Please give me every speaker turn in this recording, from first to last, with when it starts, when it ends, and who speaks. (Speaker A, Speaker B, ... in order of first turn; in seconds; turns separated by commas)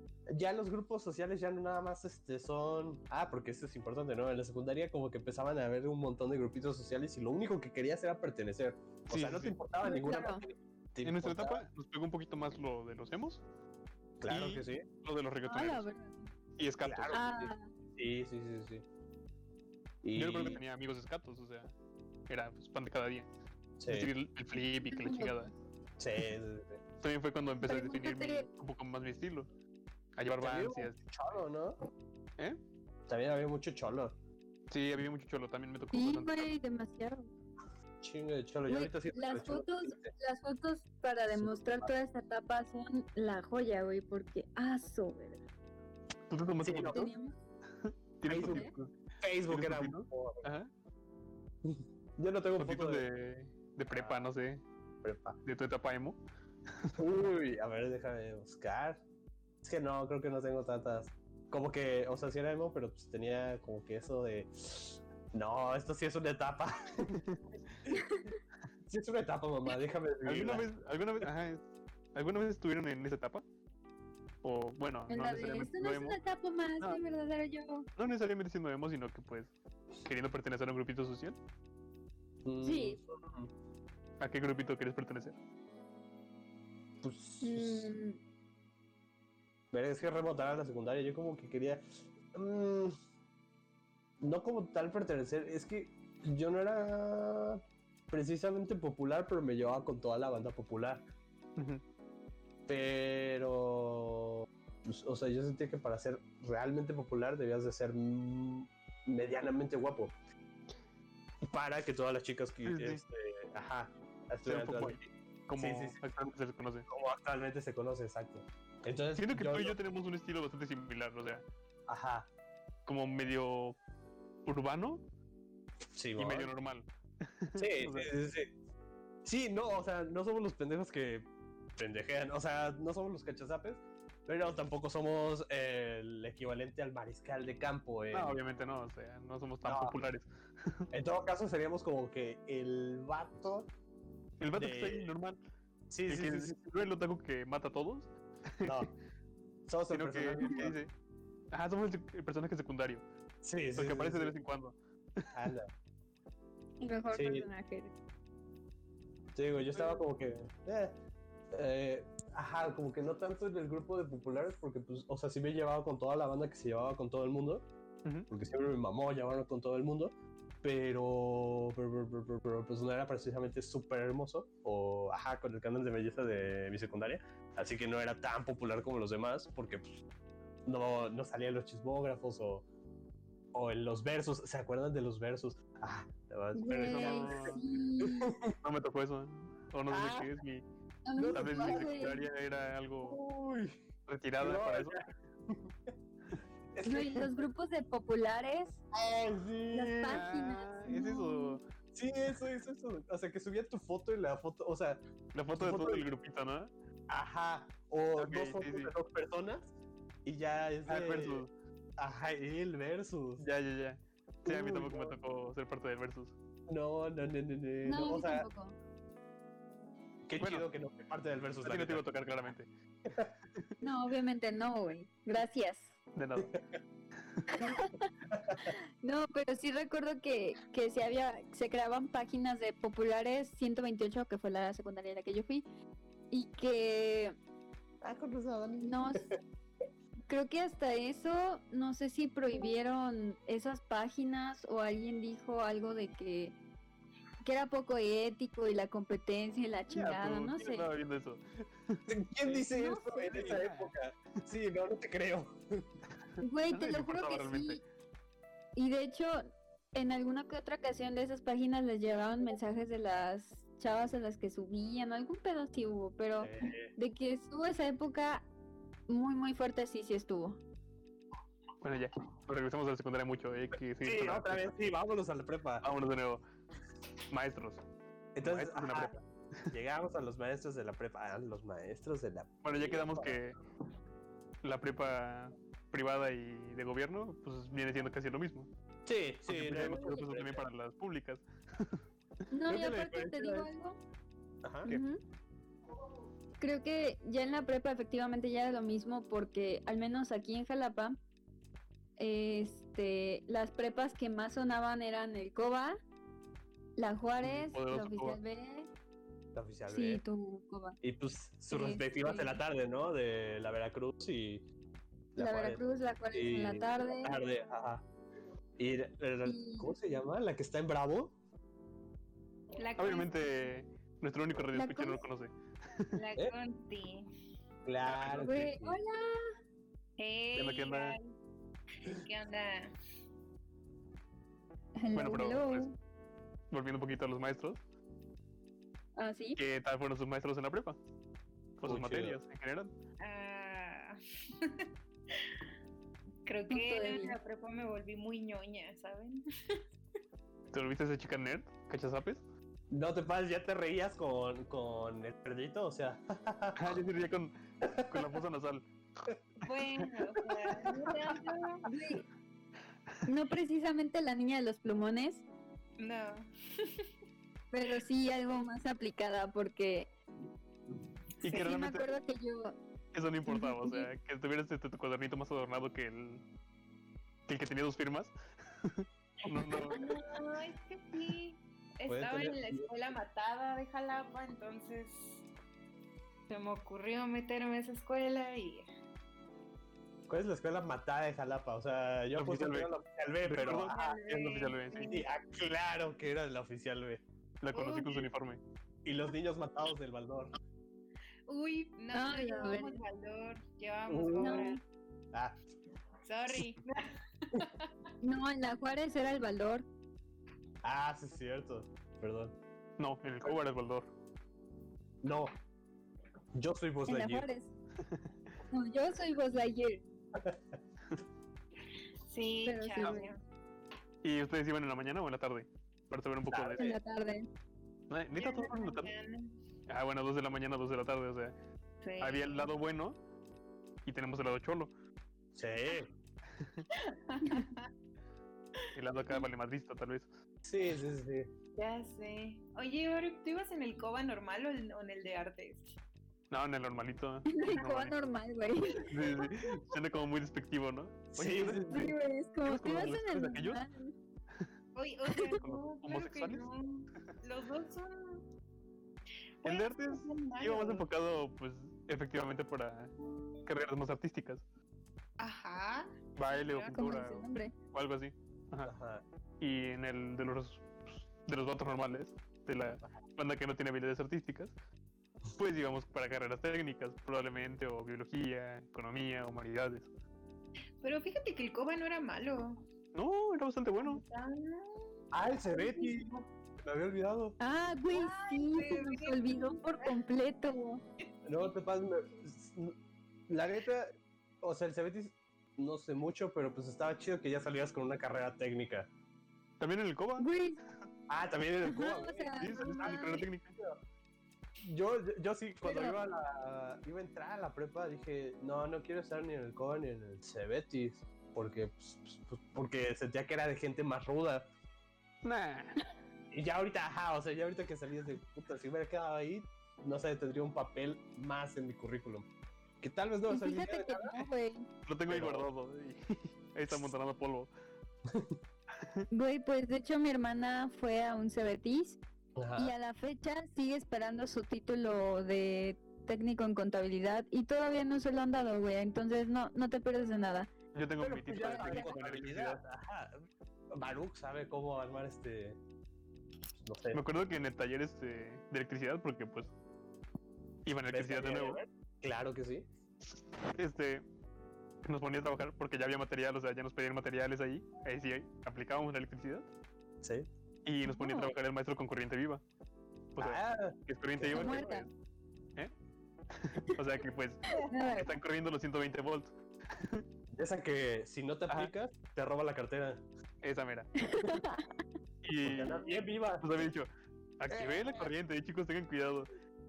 Speaker A: 0.3-11.6, Speaker B: 9.1-9.6, Speaker C: 9.8-10.4, Speaker B: 11.0-13.4, Speaker A: 14.2-14.8, Speaker B: 14.3-15.9, Speaker C: 15.5-16.3, Speaker B: 16.6-17.2, Speaker A: 16.8-18.8, Speaker C: 17.1-17.7, Speaker A: 20.0-20.6, Speaker B: 20.2-21.7, Speaker B: 22.3-23.3, Speaker A: 23.8-24.1, Speaker B: 23.9-25.5, Speaker C: 24.9-25.5, Speaker A: 26.0-26.8, Speaker B: 27.0-29.5, Speaker C: 27.6-28.5, Speaker B: 30.2-31.1, Speaker A: 30.4-31.8, Speaker A: 33.1-34.1, Speaker B: 34.7-36.5, Speaker C: 35.9-37.3, Speaker A: 38.0-40.1, Speaker C: 38.7-45.4, Speaker A: 41.3-41.9, Speaker B: 46.3-47.1, Speaker A: 46.6-47.1, Speaker C: 46.9-47.4, Speaker B: 47.8-48.9, Speaker A: 48.3-48.6, Speaker C: 48.4-48.7, Speaker A: 49.2-50.5, Speaker B: 49.5-50.7, Speaker A: 51.6-53.0, Speaker B: 52.6-54.6, Speaker A: 53.9-54.2, Speaker A: 55.0-55.4, Speaker B: 55.5-56.2, Speaker A: 57.0-59.0, Speaker A: 59.6-67.2, Speaker C: 67.9-68.4, Speaker A: 68.9-70.7, Speaker B: 70.2-73.4, Speaker B: 74.4-76.2, Speaker C: 75.1-77.9, Speaker B: 78.0-79.5, Speaker B: 80.0-81.4, Speaker A: 82.5-83.5, Speaker C: 82.6-83.0, Speaker B: 84.2-85.4, Speaker A: 87.0-87.9, Speaker C: 87.4-88.2, Speaker A: 89.7-91.8, Speaker A: 92.3-93.0, Speaker A: 94.2-101.0, Speaker B: 101.6-101.8, Speaker A: 102.7-110.1, Speaker A: 111.5-116.1, Speaker B: 112.7-113.0, Speaker B: 114.5-116.9, Speaker A: 116.9-119.8, Speaker B: 119.2-121.5, Speaker A: 121.9-122.3, Speaker B: 122.9-123.8, Speaker B: 124.5-125.0, Speaker A: 125.9-126.5, Speaker B: 126.2-128.1, Speaker A: 127.6-128.5, Speaker A: 129.2-138.4, Speaker B: 138.1-140.9, Speaker A: 139.6-139.9, Speaker A: 140.9-143.7, Speaker B: 144.4-145.4, Speaker A: 144.6-145.1, Speaker A: 145.9-146.6, Speaker B: 146.1-148.9, Speaker A: 148.6-148.9, Speaker A: 149.7-150.8, Speaker B: 149.9-150.9, Speaker B: 151.5-153.0, Speaker A: 153.4-154.3, Speaker B: 153.8-155.3, Speaker A: 155.3-155.7, Speaker C: 156.8-157.9, Speaker A: 157.1-157.5, Speaker A: 159.3-160.9, Speaker B: 159.7-160.0, Speaker A: 161.5-167.6, Speaker A: 168.3-180.0, Speaker A: 180.7-182.7, Speaker A: 183.5-188.6, Speaker C: 186.6-188.3, Speaker B: 186.8-187.6, Speaker B: 188.6-190.6, Speaker A: 189.9-190.3, Speaker C: 191.1-192.2, Speaker A: 191.2-192.2, Speaker B: 191.3-193.2, Speaker A: 193.0-193.8, Speaker B: 194.1-195.0, Speaker A: 194.4-195.9, Speaker A: 196.8-197.3, Speaker C: 196.8-198.8, Speaker A: 198.9-200.2, Speaker C: 199.7-201.6, Speaker B: 200.1-201.6, Speaker A: 201.9-205.0, Speaker B: 205.3-206.7, Speaker A: 205.6-206.1, Speaker A: 207.1-209.7, Speaker B: 208.2-208.9, Speaker A: 210.2-211.4, Speaker B: 210.9-211.5, Speaker A: 212.0-213.4, Speaker B: 213.4-216.3, Speaker A: 214.5-215.1, Speaker A: 216.7-218.5, Speaker C: 217.8-218.8, Speaker A: 220.3-222.1, Speaker B: 220.4-220.7, Speaker B: 221.6-222.7, Speaker A: 223.1-223.3, Speaker C: 223.8-225.9, Speaker B: 226.2-226.6, Speaker C: 227.5-228.1, Speaker A: 228.3-228.6, Speaker C: 228.7-235.7, Speaker C: 236.3-237.4, Speaker A: 238.0-239.3, Speaker C: 238.8-239.2, Speaker C: 240.3-246.6, Speaker C: 247.4-250.9, Speaker B: 249.9-252.7, Speaker A: 252.1-255.9, Speaker C: 252.7-253.5, Speaker B: 253.3-253.9, Speaker C: 256.4-257.8, Speaker B: 256.7-257.8, Speaker C: 258.8-268.5, Speaker A: 266.4-266.9, Speaker C: 269.1-270.6, Speaker B: 271.8-274.8, Speaker A: 274.0-275.9, Speaker B: 275.8-276.4, Speaker B: 277.3-277.8, Speaker A: 278.4-279.1, Speaker B: 278.4-279.7, Speaker A: 279.7-283.4, Speaker B: 282.6-283.6, Speaker B: 284.6-288.7, Speaker A: 289.1-290.7, Speaker B: 289.5-292.0, Speaker C: 292.5-294.0, Speaker A: 292.7-293.7, Speaker A: 294.6-294.9, Speaker C: 294.9-295.2, Speaker C: 296.6-301.2, Speaker C: 302.2-306.0, Speaker C: 307.0-308.9, Speaker B: 307.4-308.4, Speaker A: 309.5-310.2, Speaker C: 309.9-311.0, Speaker A: 311.0-314.6, Speaker C: 311.7-312.6, Speaker A: 315.4-315.8, Speaker C: 315.4-317.4, Speaker A: 316.3-318.0, Speaker A: 318.8-321.4, Speaker C: 319.4-320.0, Speaker D: 322.8-323.3, Speaker B: 323.0-326.2, Speaker C: 324.7-325.2, Speaker D: 326.1-327.3, Speaker A: 327.9-329.0, Speaker B: 328.1-328.5, Speaker C: 328.3-329.5, Speaker D: 330.2-331.3, Speaker B: 330.6-331.2, Speaker D: 332.0-332.9, Speaker C: 335.0-335.9, Speaker B: 335.1-335.9, Speaker B: 336.7-337.8, Speaker C: 339.2-339.6, Speaker B: 339.6-341.0, Speaker B: 341.8-342.9, Speaker A: 341.8-342.4, Speaker D: 343.2-345.5, Speaker D: 346.5-349.8, Speaker C: 346.7-347.4, Speaker B: 350.7-352.4, Speaker A: 352.9-356.9, Speaker B: 356.8-358.9, Speaker A: 357.8-358.4, Speaker D: 359.6-361.9, Speaker C: 360.9-362.3, Speaker C: 363.3-365.4, Speaker D: 366.0-367.1, Speaker C: 367.7-370.1, Speaker B: 371.4-372.1, Speaker C: 371.4-372.8, Speaker B: 373.1-376.4, Speaker C: 373.5-374.1, Speaker B: 377.5-380.0, Speaker D: 379.9-385.4, Speaker A: 382.1-382.9, Speaker D: 386.5-388.9, Speaker A: 390.3-394.2, Speaker B: 392.4-392.9, Speaker B: 393.4-395.2, Speaker D: 393.6-395.2, Speaker A: 395.1-397.2, Speaker B: 397.6-398.6, Speaker D: 397.7-398.3, Speaker A: 399.1-400.5, Speaker D: 401.5-404.8, Speaker C: 402.1-403.0, Speaker A: 404.1-404.6, Speaker C: 404.4-404.8, Speaker D: 406.2-407.9, Speaker C: 408.2-409.8, Speaker A: 410.8-412.6, Speaker B: 413.0-414.1, Speaker A: 415.2-415.5, Speaker A: 416.6-417.5, Speaker C: 417.1-417.7, Speaker C: 418.7-420.0, Speaker A: 420.4-420.6, Speaker D: 422.3-423.4, Speaker C: 422.6-423.3, Speaker B: 424.2-427.0, Speaker A: 426.5-426.8, Speaker C: 426.8-427.5, Speaker B: 428.1-429.1, Speaker D: 428.4-429.6, Speaker B: 429.9-431.5, Speaker D: 432.0-432.7, Speaker B: 432.2-433.2, Speaker B: 434.1-434.9, Speaker A: 435.6-436.1, Speaker D: 437.1-437.9, Speaker B: 438.9-440.3, Speaker A: 440.7-441.5, Speaker D: 441.8-446.0, Speaker B: 446.5-448.2, Speaker C: 447.5-449.1, Speaker B: 449.1-452.1, Speaker A: 451.3-452.1, Speaker C: 451.9-454.1, Speaker B: 452.6-453.8, Speaker D: 454.9-458.4, Speaker C: 455.3-455.6, Speaker B: 455.6-456.6, Speaker D: 459.6-461.1, Speaker B: 459.6-463.1, Speaker B: 463.6-464.6, Speaker D: 465.4-467.3, Speaker B: 466.4-468.9, Speaker C: 466.9-467.7, Speaker A: 468.9-469.2, Speaker B: 469.6-474.7, Speaker B: 475.5-480.1, Speaker D: 481.0-482.8, Speaker B: 483.1-484.2, Speaker D: 484.0-486.4, Speaker A: 485.3-487.6, Speaker C: 487.6-491.0, Speaker D: 488.1-490.1, Speaker A: 491.5-492.9, Speaker A: 493.5-499.1, Speaker B: 499.8-500.5, Speaker C: 500.4-500.8, Speaker A: 501.3-504.0, Speaker C: 501.9-503.5, Speaker B: 502.6-503.8, Speaker A: 504.8-514.7, Speaker C: 505.8-506.2, Speaker B: 515.4-516.0, Speaker A: 516.5-522.5, Speaker A: 523.0-524.5, Speaker C: 523.5-524.9, Speaker B: 525.1-527.7, Speaker A: 525.3-525.7, Speaker A: 528.3-528.6, Speaker B: 529.0-529.3, Speaker C: 529.3-532.2, Speaker A: 532.6-532.9, Speaker C: 532.8-540.7, Speaker B: 540.9-542.8, Speaker A: 541.2-545.8, Speaker C: 541.6-542.1, Speaker A: 546.8-547.2, Speaker B: 547.1-549.7, Speaker B: 550.9-551.8, Speaker A: 551.1-552.9, Speaker B: 553.7-554.2, Speaker B: 555.0-559.7, Speaker A: 560.2-560.5, Speaker B: 560.9-562.6, Speaker C: 561.1-561.5, Speaker B: 563.4-565.1, Speaker A: 563.4-565.0, Speaker C: 564.5-565.1, Speaker B: 566.5-570.2, Speaker D: 567.7-567.9, Speaker C: 567.7-568.4, Speaker A: 570.5-573.2, Speaker B: 573.6-574.1, Speaker C: 574.2-575.0, Speaker B: 575.4-577.1, Speaker A: 575.6-576.8, Speaker B: 577.6-579.5